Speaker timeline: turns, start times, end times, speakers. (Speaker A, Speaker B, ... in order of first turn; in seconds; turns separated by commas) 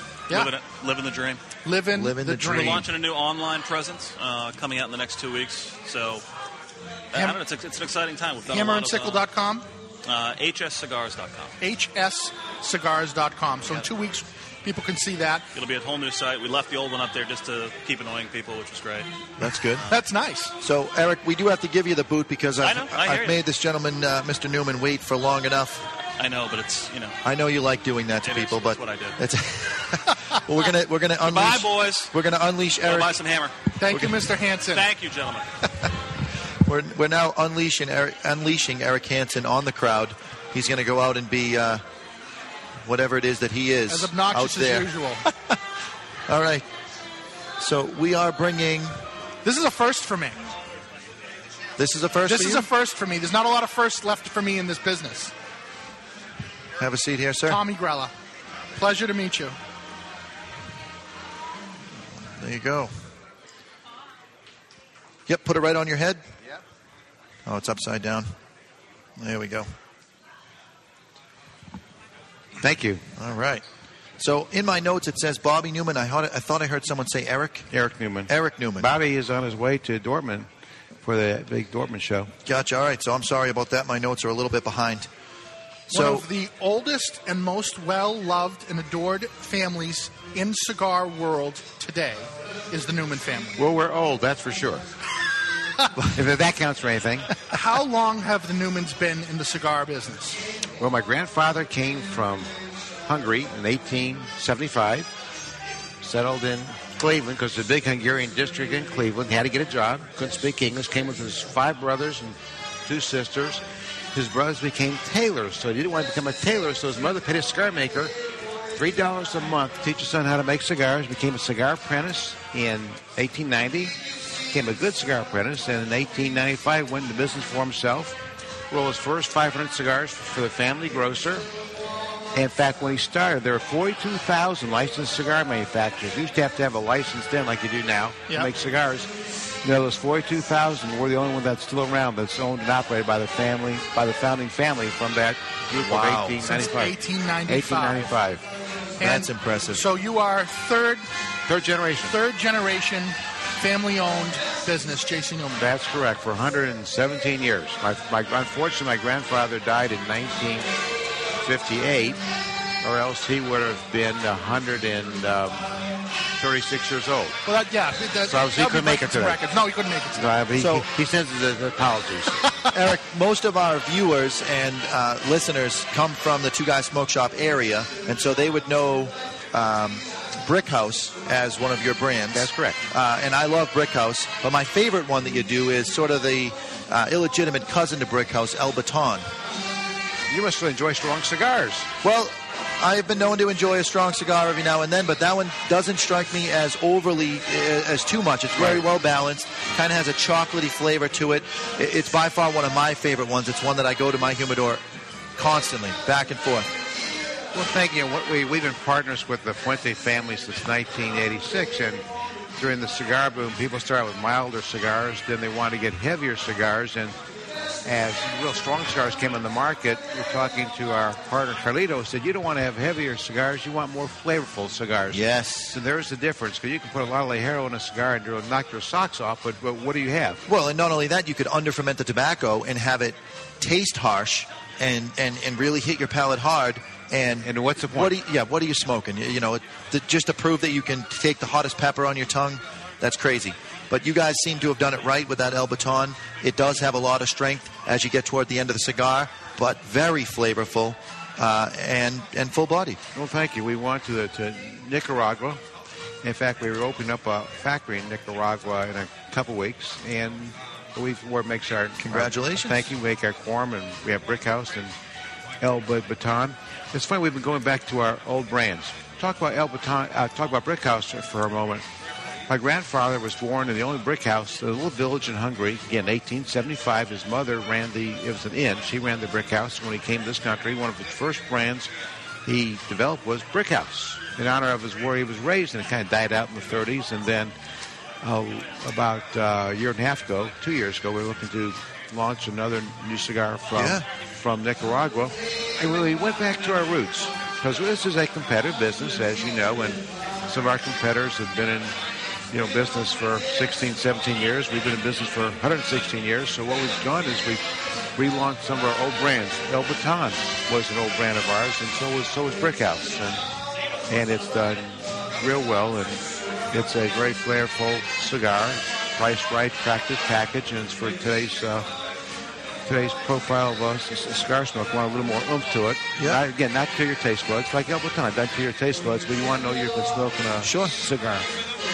Speaker A: 0.3-1.4, Speaker B: 1.6-2.8, Speaker C: 1.9-2.8, Speaker A: 2.5-6.2, Speaker A: 7.1-9.2, Speaker B: 7.1-7.4, Speaker B: 8.5-9.6, Speaker A: 10.1-11.5, Speaker B: 11.6-15.5, Speaker A: 15.5-19.1, Speaker C: 19.4-19.9, Speaker A: 19.7-20.0, Speaker B: 19.9-20.5, Speaker C: 20.6-25.8, Speaker A: 22.6-23.4, Speaker A: 26.2-27.2, Speaker C: 27.2-33.1, Speaker A: 28.2-29.2, Speaker A: 31.2-32.1, Speaker A: 32.8-33.5, Speaker B: 33.8-34.9, Speaker C: 33.9-34.1, Speaker A: 34.7-35.5, Speaker C: 36.6-41.8, Speaker C: 42.8-44.9, Speaker B: 43.9-45.2, Speaker C: 46.3-46.6, Speaker C: 47.6-48.9, Speaker B: 49.4-50.4, Speaker C: 51.8-52.7, Speaker B: 52.3-55.3, Speaker C: 56.8-57.6, Speaker B: 57.5-58.1, Speaker B: 58.8-59.5, Speaker C: 62.2-62.9, Speaker C: 65.3-66.2, Speaker C: 67.4-68.3, Speaker C: 69.2-69.7, Speaker D: 72.6-73.0, Speaker C: 73.2-73.6, Speaker C: 74.2-77.7, Speaker D: 77.7-80.5, Speaker C: 78.3-78.9, Speaker D: 81.0-82.3, Speaker C: 82.4-85.1, Speaker C: 85.9-86.2, Speaker B: 85.9-93.6, Speaker D: 93.6-94.8, Speaker D: 96.2-97.3, Speaker B: 97.5-100.4, Speaker D: 100.8-102.5, Speaker D: 103.0-105.1, Speaker D: 106.0-113.6, Speaker D: 114.1-118.1, Speaker D: 118.7-123.9, Speaker D: 124.5-128.2, Speaker D: 128.7-131.4, Speaker D: 132.3-139.1, Speaker D: 139.6-146.9, Speaker C: 145.8-146.3, Speaker B: 146.4-148.1, Speaker D: 147.5-148.4, Speaker C: 149.0-149.8, Speaker B: 149.0-151.1, Speaker D: 151.5-152.2, Speaker B: 152.0-155.7, Speaker D: 155.6-160.7, Speaker D: 161.4-162.2, Speaker D: 162.8-165.7, Speaker D: 166.4-167.4, Speaker B: 167.4-170.4, Speaker D: 168.2-169.4, Speaker D: 170.1-172.4, Speaker C: 170.6-170.9, Speaker C: 172.7-189.3, Speaker D: 182.3-182.8, Speaker D: 190.3-191.9, Speaker C: 192.0-204.8, Speaker D: 198.5-198.9, Speaker C: 205.3-206.7, Speaker D: 207.5-212.0, Speaker D: 212.6-217.1, Speaker D: 217.8-230.4, Speaker C: 225.1-225.8, Speaker C: 230.5-253.0, Speaker D: 237.4-238.2, Speaker D: 253.1-255.6, Speaker D: 256.2-264.9, Speaker C: 262.0-262.8, Speaker D: 265.6-271.8, Speaker D: 272.5-281.9, Speaker D: 282.4-287.5, Speaker D: 288.2-301.9, Speaker C: 293.7-294.0, Speaker D: 302.5-307.6, Speaker D: 308.1-313.4, Speaker D: 314.1-321.9, Speaker D: 322.9-331.5, Speaker C: 326.2-326.4, Speaker C: 330.6-330.9